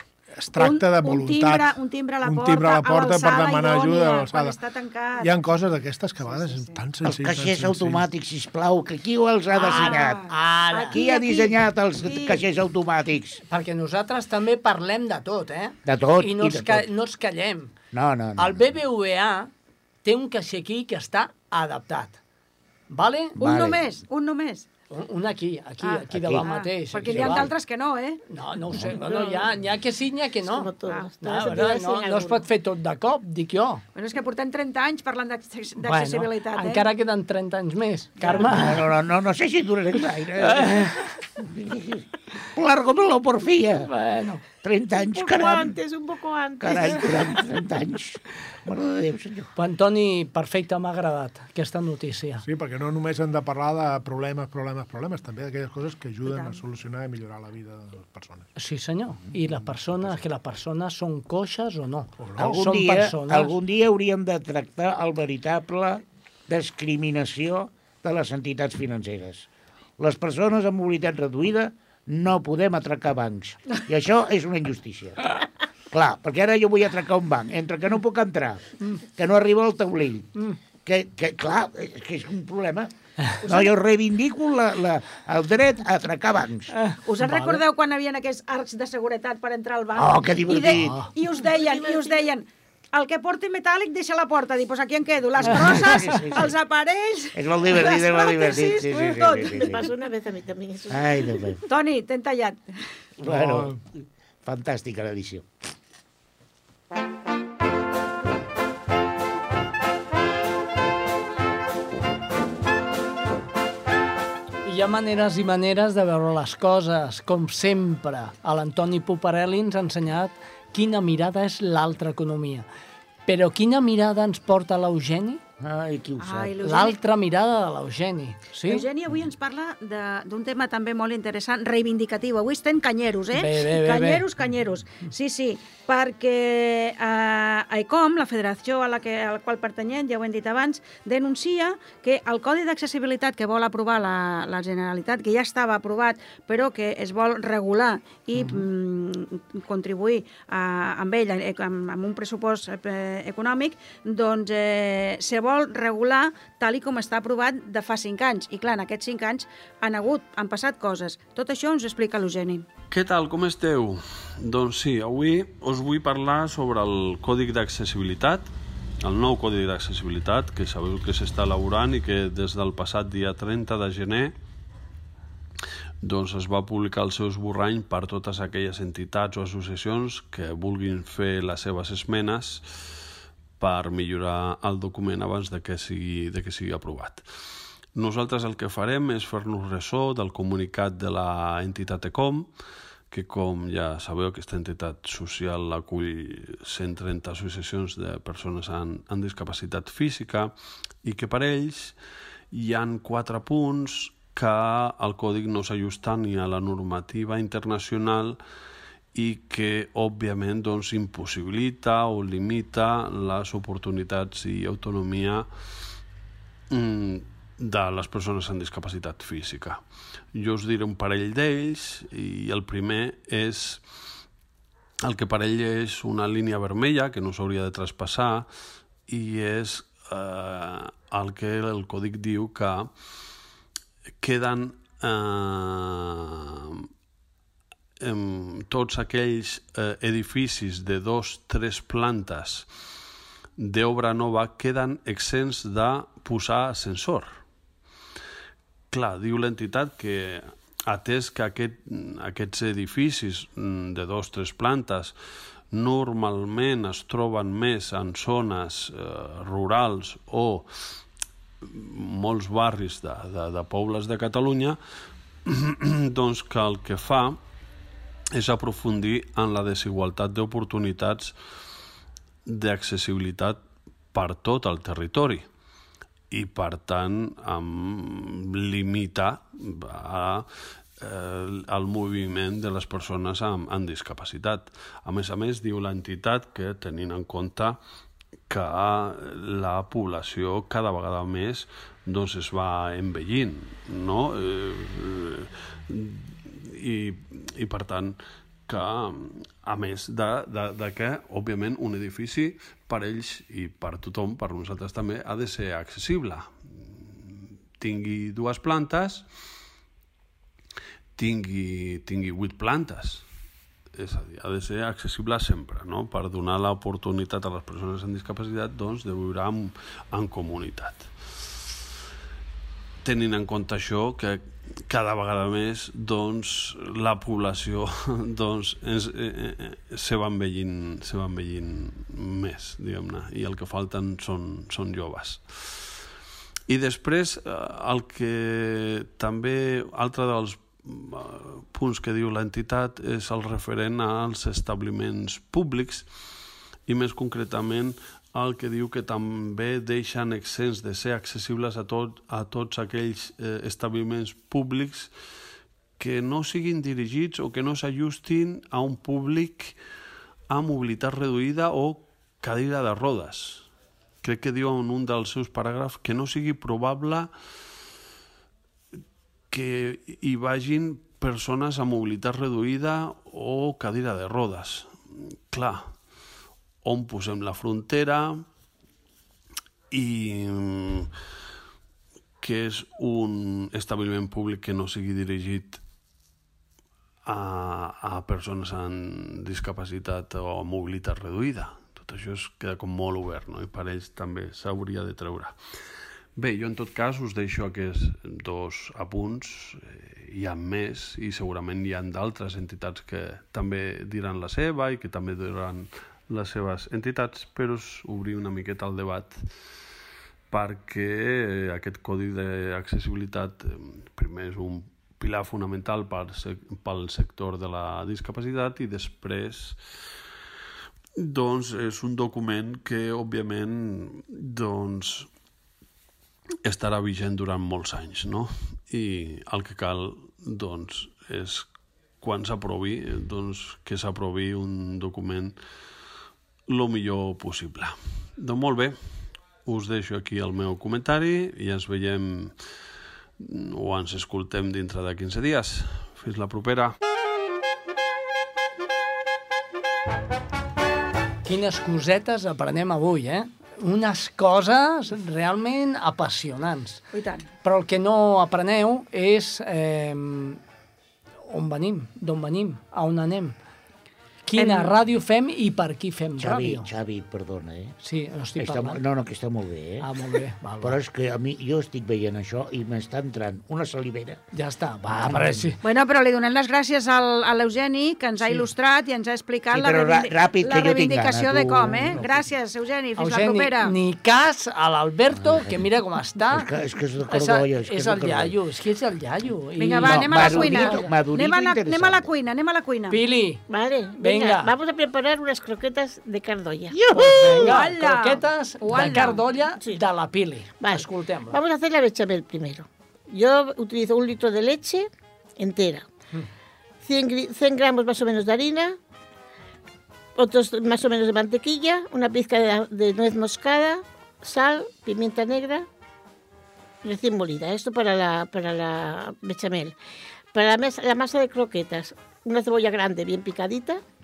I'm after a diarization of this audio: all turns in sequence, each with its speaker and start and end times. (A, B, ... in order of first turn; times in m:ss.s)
0:00.4-0:04.6 A
0:00.6-0:05.3 B
0:05.2-0:08.0 A
0:06.2-0:06.8 B
0:07.0-0:10.2 C
0:09.5-0:12.4 B
0:10.3-0:11.0 D
0:10.9-0:13.4 C
0:13.5-0:17.8 D
0:15.8-0:16.8 C
0:17.9-0:18.6 C
0:18.4-0:19.5 D
0:20.0-0:22.2 D
0:22.9-0:23.4 D
0:23.4-0:24.7 B
0:23.4-0:23.8 C
0:24.9-0:27.5 D
0:25.8-0:28.2 B
0:26.1-0:26.5 C
0:27.1-0:27.5 C
0:28.3-0:33.8 D
0:29.0-0:29.4 E
0:30.4-0:32.4 E
0:33.9-0:36.8 B
0:35.8-0:38.9 D
0:38.3-0:43.9 C
0:40.4-0:41.1 D
0:43.8-0:44.4 D
0:44.6-0:45.8 C
0:45.0-0:47.4 E
0:46.6-0:49.5 C
0:49.6-0:52.4 D
0:52.4-0:58.5 A
0:56.2-0:56.6 B
0:58.6-1:03.5 D
1:02.2-1:02.6 A
1:02.4-1:09.5 C
1:10.0-1:15.3 C
1:15.9-1:20.3 C
1:20.8-1:22.9 C
1:23.4-1:26.7 C
1:26.7-1:27.6 D
1:27.0-1:39.8 B
1:30.0-1:31.0 C
1:30.7-1:31.1 D
1:31.6-1:32.0 E
1:35.4-1:36.5 C
1:37.3-1:39.9 C
1:39.5-1:41.3 E
1:40.9-1:41.6 C
1:41.6-1:42.8 B
1:43.2-1:45.5 C
1:43.2-1:43.8 A
1:54.6-2:02.6 D
2:03.2-2:05.4 D
2:05.6-2:06.6 C
2:06.2-2:07.0 B
2:06.6-2:08.9 D
2:08.6-2:42.6 B
2:13.3-2:14.2 D
2:42.9-2:48.5 F
2:49.0-2:54.3 F
2:56.0-3:02.8 F
3:03.6-3:07.2 F
3:07.9-3:12.5 F
3:13.1-3:20.5 F
3:21.0-3:22.0 F
3:22.5-3:28.4 F
3:29.1-3:35.5 F
3:36.7-3:39.8 F
3:40.3-3:43.8 F
3:45.0-3:48.5 F
3:49.1-3:52.9 F
3:54.2-3:56.8 F
3:58.0-4:02.7 F
4:03.6-4:07.4 F
4:08.9-4:15.1 F
4:15.7-4:20.7 F
4:21.6-4:24.8 F
4:25.4-4:27.4 F
4:28.3-4:31.3 F
4:32.4-4:33.6 F
4:34.1-4:35.4 F
4:36.3-4:40.5 F
4:41.0-4:47.8 F
4:48.5-4:58.2 F
4:58.7-5:09.2 F
5:11.2-5:13.2 F
5:13.9-5:21.1 F
5:23.0-5:35.9 F
5:36.7-5:46.1 F
5:46.9-5:55.1 F
5:56.0-5:59.8 F
6:00.5-6:03.7 F
6:04.2-6:07.3 F
6:09.5-6:15.9 F
6:16.8-6:18.4 F
6:19.9-6:21.1 F
6:22.4-6:25.8 F
6:27.2-6:35.6 F
6:36.4-6:49.4 F
6:50.5-6:59.8 F
7:01.2-7:05.3 F
7:06.6-7:11.7 F
7:12.2-7:15.6 F
7:16.7-7:19.0 F
7:19.6-7:22.6 F
7:23.4-7:27.0 F
7:31.4-7:37.0 D
7:37.1-7:37.5 B
7:37.6-7:40.6 D
7:41.5-7:43.5 D
7:44.5-7:46.9 D
7:44.6-7:44.9 B
7:46.4-7:47.9 C
7:48.0-7:49.0 D
7:48.6-7:50.1 C
7:50.0-7:51.0 D
7:50.8-7:54.4 C
7:54.5-7:55.8 D
7:55.1-7:55.7 C
7:55.8-8:03.9 B
7:58.4-7:58.7 D
7:59.7-8:02.4 C
8:03.2-8:06.7 D
8:05.3-8:05.8 C
8:06.5-8:08.6 C
8:07.2-8:11.1 D
8:09.8-8:13.2 B
8:10.0-8:12.3 C
8:13.1-8:13.6 D
8:13.7-8:17.8 E
8:14.2-8:14.7 D
8:16.9-8:21.6 D
8:17.6-8:19.4 B
8:20.8-8:25.1 E
8:25.6-8:26.1 E
8:27.0-8:29.0 E
8:30.4-8:35.9 E
8:37.0-8:40.0 E
8:40.5-8:44.0 E